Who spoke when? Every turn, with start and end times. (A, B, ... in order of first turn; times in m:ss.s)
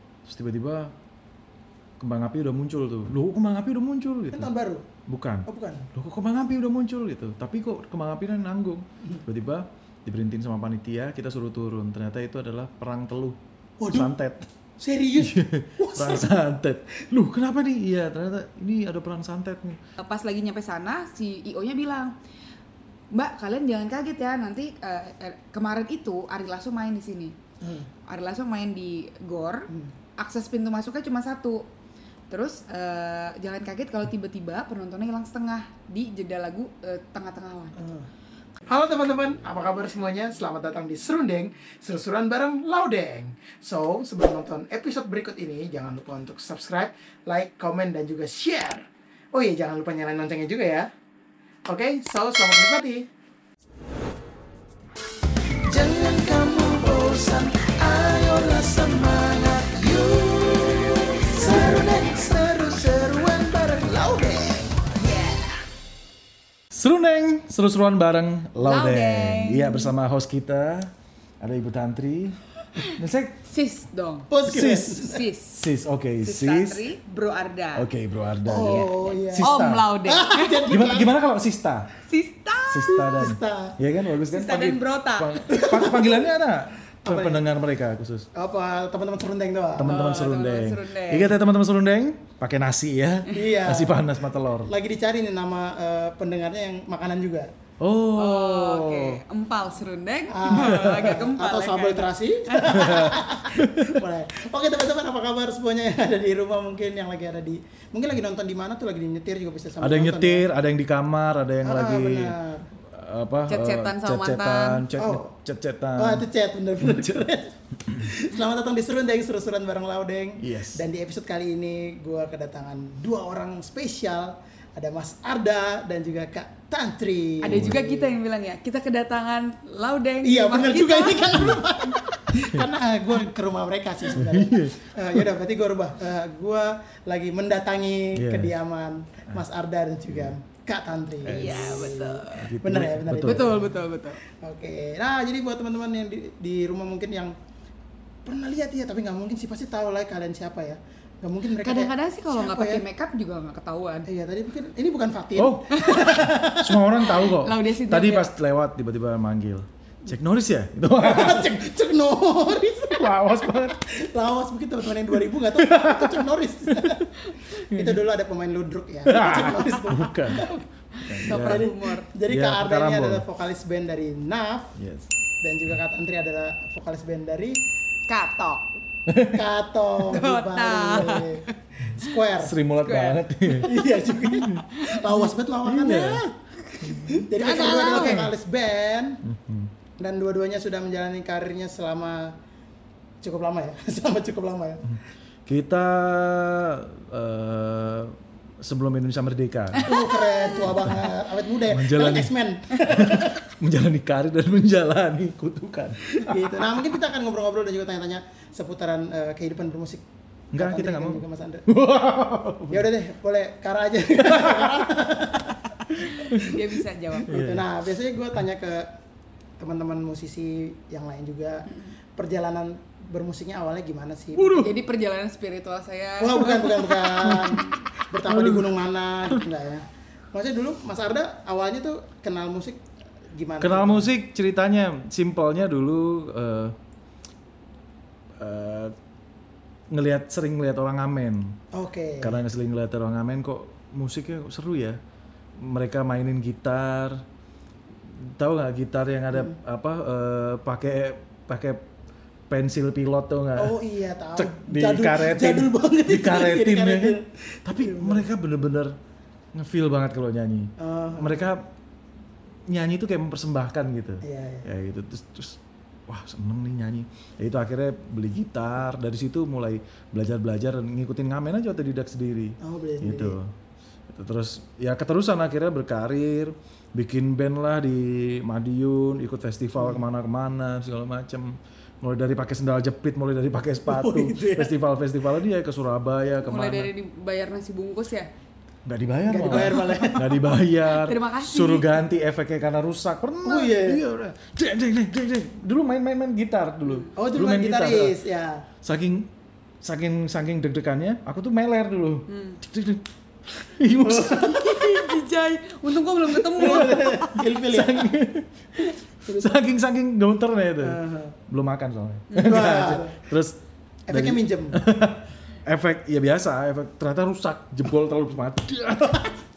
0:00.2-0:00.9 A
0:02.0-0:04.5 A
0:04.3-0:04.9 B
0:05.1-0:13.4 A
0:05.5-0:05.9 B
0:13.8-0:14.1 B
0:13.9-0:14.5 A
0:14.8-0:16.4 B
0:15.2-0:19.8 A
0:20.0-0:22.1 C
0:23.1-0:27.4 C
0:27.6-0:27.9 B
0:28.1-0:31.7 C
0:32.3-0:37.8 C
0:37.8-0:38.1 B
0:38.7-0:50.9 B
0:51.7-0:53.0 B
0:55.6-1:05.0 B
1:01.5-1:01.9 A
1:05.0-1:05.6 C
1:06.7-1:13.4 A
1:08.6-1:09.9 C
1:13.5-1:14.3 C
1:14.3-1:15.2 B
1:14.5-1:15.0 A
1:15.0-1:15.6 C
1:15.5-1:16.8 A
1:16.2-1:17.9 C
1:17.8-1:19.9 A
1:18.5-1:21.1 B
1:18.6-1:20.7 C
1:20.7-1:21.9 A
1:22.1-1:23.1 C
1:22.7-1:28.3 A
1:22.9-1:23.8 B
1:24.3-1:25.4 C
1:25.5-1:26.3 B
1:27.0-1:27.4 B
1:28.4-1:30.0 B
1:29.8-1:34.7 A
1:29.8-1:31.4 C
1:33.3-1:34.1 B
1:34.7-1:37.5 B
1:37.8-1:39.2 A
1:38.2-1:43.2 C
1:40.3-1:50.5 B
1:40.5-1:41.1 A
1:42.7-1:44.0 A
1:49.8-1:56.2 A
1:51.6-1:52.7 B
1:53.5-1:54.8 C
1:55.0-1:55.3 B
1:56.0-2:08.2 B
1:56.8-1:57.2 A
2:00.4-2:00.8 A
2:07.4-2:11.7 C
2:07.5-2:07.8 A
2:10.2-2:27.4 B
2:11.4-2:11.6 A
2:14.1-2:15.3 A
2:18.2-2:18.5 A
2:21.2-2:23.7 A
2:21.3-2:22.5 C
2:23.2-2:24.2 C
2:28.2-2:32.8 B
2:31.6-2:34.1 C
2:34.1-2:36.9 B
2:35.4-2:41.5 A
2:35.7-2:36.2 C
2:37.0-2:38.3 C
2:41.0-2:47.1 B
2:42.9-2:43.8 A
2:45.6-2:46.2 A
2:47.6-2:48.0 A
2:47.7-2:50.6 B
2:49.1-2:50.5 A
2:49.2-2:49.9 C
2:51.0-2:51.6 A
2:51.0-2:52.1 C
2:51.2-2:54.7 B
2:52.3-2:53.2 A
2:54.8-2:55.1 A
2:55.4-2:57.6 B
2:58.1-2:58.7 C
2:59.1-2:59.4 A
2:59.3-3:02.6 B
3:00.1-3:01.6 C
3:02.4-3:04.7 A
3:02.8-3:03.7 C
3:03.6-3:06.3 B
3:04.4-3:05.2 C
3:05.6-3:06.3 A
3:06.6-3:08.3 C
3:06.8-3:07.2 A
3:07.0-3:09.2 B
3:07.8-3:08.3 A
3:09.2-3:09.7 A
3:10.0-3:12.4 B
3:13.2-3:14.8 B
3:14.9-3:19.9 A
3:19.8-3:23.4 B
3:19.9-3:20.4 C
3:20.6-3:21.0 A
3:21.7-3:22.3 A
3:22.8-3:26.5 A
3:26.2-3:30.0 B
3:30.5-3:32.9 A
3:30.6-3:31.6 B
3:32.7-3:38.9 B
3:34.2-3:34.9 A
3:35.9-3:37.4 C
3:37.2-3:37.7 A
3:39.6-3:44.7 B
3:44.4-3:44.7 A
3:44.5-3:47.4 C
3:46.2-3:54.1 B
3:47.2-3:48.7 A
3:53.6-3:56.8 A
3:58.4-3:59.0 A
3:59.9-4:01.6 A
4:01.7-4:02.4 B
4:02.2-4:05.0 A
4:05.6-4:07.2 A
4:08.2-4:11.8 A
4:12.5-4:13.8 A
4:13.6-4:18.3 B
4:14.4-4:18.9 A
4:19.5-4:21.7 A
4:20.8-4:21.5 B
4:22.7-4:33.5 A
4:24.2-4:24.7 B
4:32.6-4:33.4 B
4:34.1-4:46.9 A
4:39.8-4:40.0 B
4:43.9-4:44.7 B
4:46.5-4:48.3 C
4:48.9-4:58.2 A
4:49.3-4:50.3 B
4:49.5-4:51.9 C
4:53.4-4:54.0 B
4:57.1-4:58.6 B
4:58.8-4:59.3 A
4:59.8-5:05.0 A
5:02.3-5:02.6 C
5:04.0-5:04.5 B
5:04.2-5:07.5 C
5:06.3-5:08.1 B
5:07.6-5:13.6 A
5:09.2-5:09.6 B
5:10.8-5:11.4 B
5:12.3-5:12.6 C
5:12.4-5:13.2 B
5:14.1-5:14.8 B
5:14.1-5:19.4 A